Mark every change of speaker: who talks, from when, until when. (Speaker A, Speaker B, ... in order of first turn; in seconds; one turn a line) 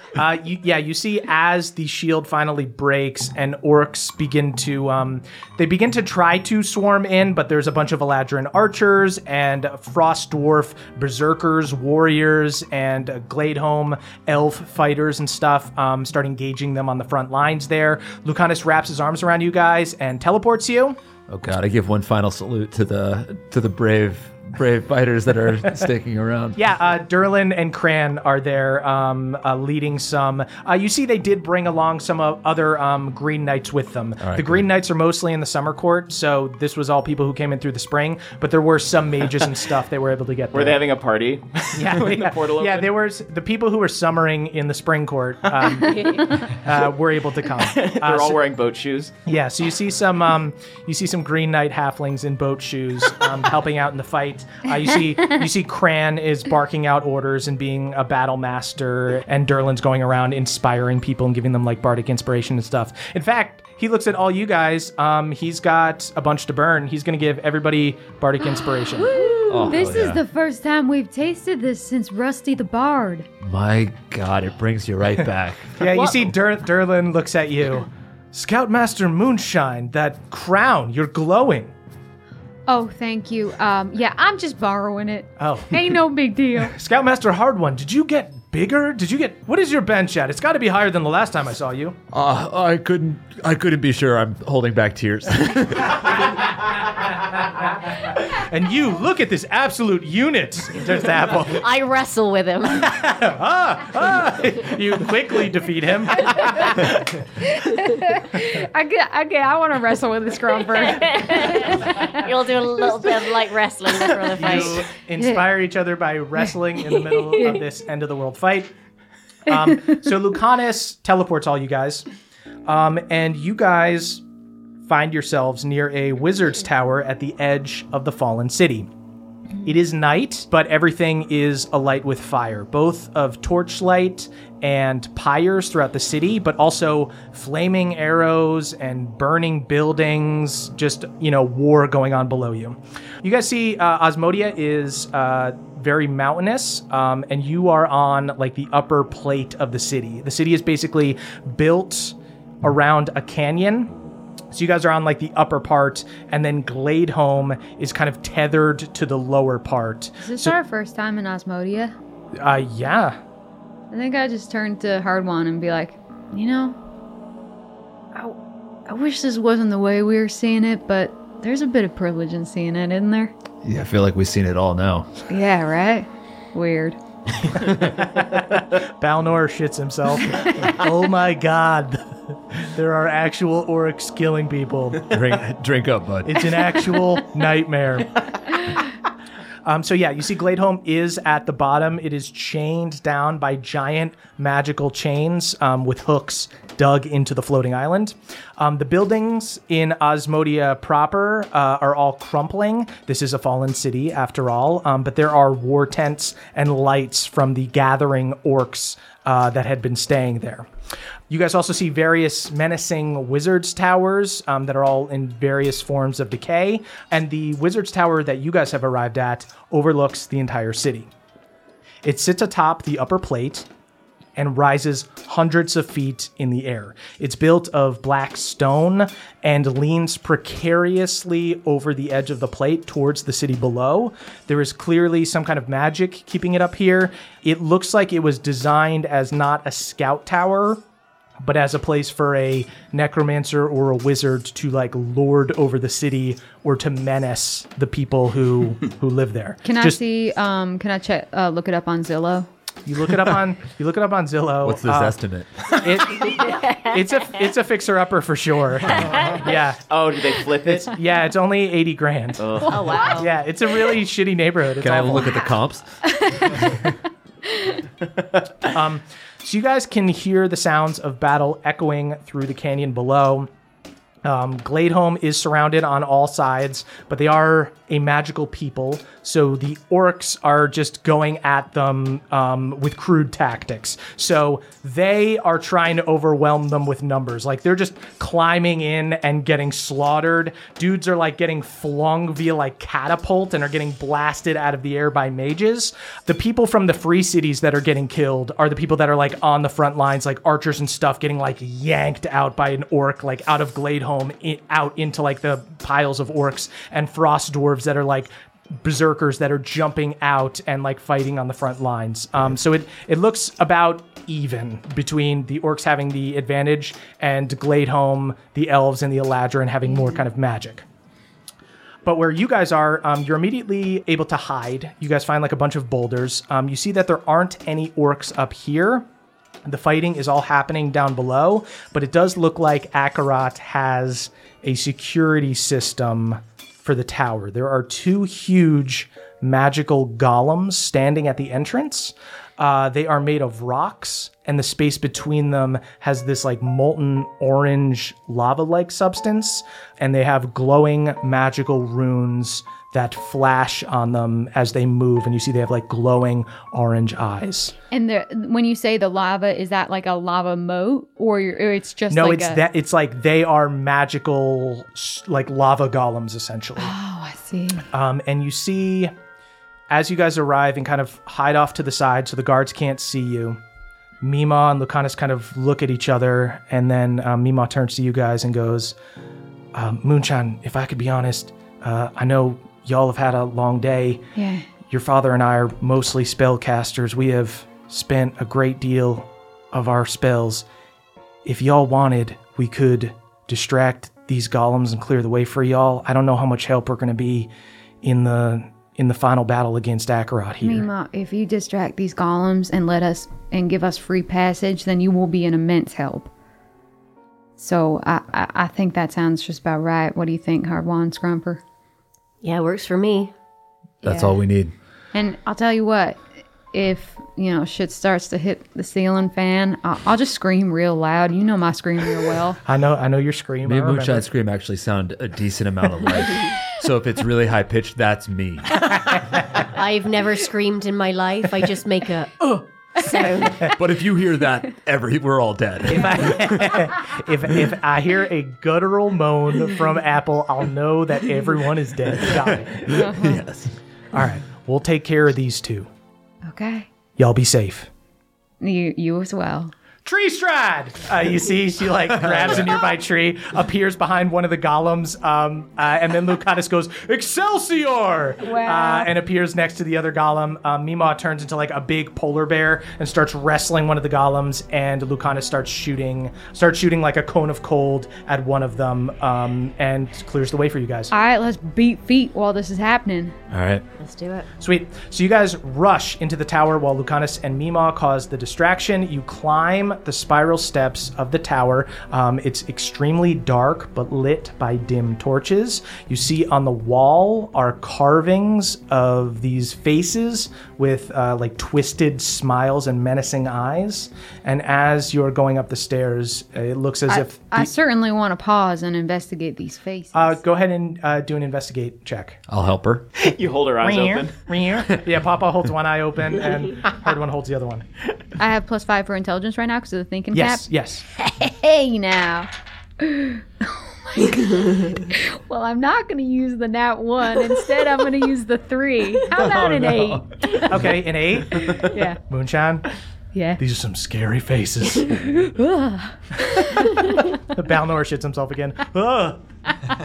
Speaker A: 0.1-21.0
Speaker B: 21.3-26.6
Speaker A: 26.6-40.8
Speaker B: 34.2-34.7
Speaker C: 40.5-43.0
Speaker A: 41.7-48.4
Speaker D: 45.8-46.4
Speaker C: 47.6-49.1
Speaker A: 49.3-69.2
Speaker E: 68.9-73.3
Speaker B: 69.5-70.2
Speaker B: 73.4-76.3
Speaker A: 75.8-81.7
Speaker E: 82.7-86.8
Speaker A: 85.4-86.0
Speaker A: 86.6-92.0
Speaker B: 92.1-96.5
Speaker A: 98.3-101.6
Speaker D: 101.4-102.9
Speaker A: 102.8-107.0
Speaker E: 107.4-112.3
Speaker D: 110.9-114.9
Speaker E: 114.0-115.5
Speaker A: 114.4-118.7
Speaker A: 119.5-122.1
Speaker A: 122.7-124.2
Speaker A: 124.8-128.9
Speaker A: 129.6-153.9
Speaker A: 154.5-160.6
Speaker E: 160.2-161.9
Speaker A: 162.4-163.2
Speaker E: 163.9-166.8
Speaker E: 168.2-173.3
Speaker B: 173.6-175.1
Speaker E: 175.3-177.0
Speaker B: 177.5-177.8
Speaker A: 177.6-185.2
Speaker B: 185.1-186.8
Speaker A: 186.2-188.4
Speaker A: 189.6-210.7
Speaker A: 211.3-221.1
Speaker A: 222.0-223.7
Speaker A: 224.4-240.8
Speaker A: 241.4-250.0
Speaker E: 249.7-252.5
Speaker A: 252.9-255.2
Speaker B: 254.6-255.7
Speaker A: 255.8-259.8
Speaker D: 256.4-256.8
Speaker C: 259.9-260.9
Speaker A: 260.7-265.5
Speaker C: 262.4-263.2
Speaker D: 262.7-263.3
Speaker B: 264.8-265.9
Speaker E: 266.1-266.8
Speaker A: 268.6-273.5
Speaker A: 274.2-320.9
Speaker E: 319.9-320.2
Speaker A: 322.0-329.1
Speaker A: 329.6-357.7
Speaker E: 357.9-362.6
Speaker A: 362.1-366.9
Speaker E: 366.8-367.9
Speaker A: 367.9-369.1
Speaker A: 369.9-373.6
Speaker A: 374.2-378.9
Speaker A: 379.7-384.2
Speaker E: 384.4-384.7
Speaker A: 384.9-390.7
Speaker A: 391.4-397.5
Speaker A: 398.0-400.9
Speaker E: 400.6-406.3
Speaker E: 407.6-411.6
Speaker D: 412.4-413.3
Speaker B: 414.0-414.7
Speaker E: 414.0-414.4
Speaker E: 415.1-422.6
Speaker A: 422.7-424.3
Speaker B: 423.6-429.2
Speaker D: 429.6-433.6
Speaker A: 433.2-433.7
Speaker B: 433.6-436.8
Speaker A: 435.9-443.1
Speaker B: 442.3-443.7
Speaker E: 442.9-443.4
Speaker A: 444.1-445.9
Speaker E: 446.5-446.9
Speaker A: 447.2-447.9
Speaker E: 448.6-449.7
Speaker A: 450.0-471.1
Speaker E: 458.4-459.1
Speaker E: 471.1-473.4
Speaker B: 473.5-473.8
Speaker D: 474.0-474.5
Speaker A: 474.6-497.7
Speaker E: 497.1-500.4
Speaker A: 500.1-502.4
Speaker B: 502.5-503.1
Speaker C: 503.2-504.3
Speaker A: 503.8-507.9
Speaker E: 508.4-510.7
Speaker A: 510.3-511.1
Speaker E: 511.2-512.5
Speaker E: 513.0-520.7
Speaker B: 519.4-521.0
Speaker A: 520.7-522.9
Speaker E: 521.7-522.2
Speaker E: 523.3-523.6
Speaker A: 523.6-525.2
Speaker E: 525.1-527.4
Speaker A: 527.5-529.4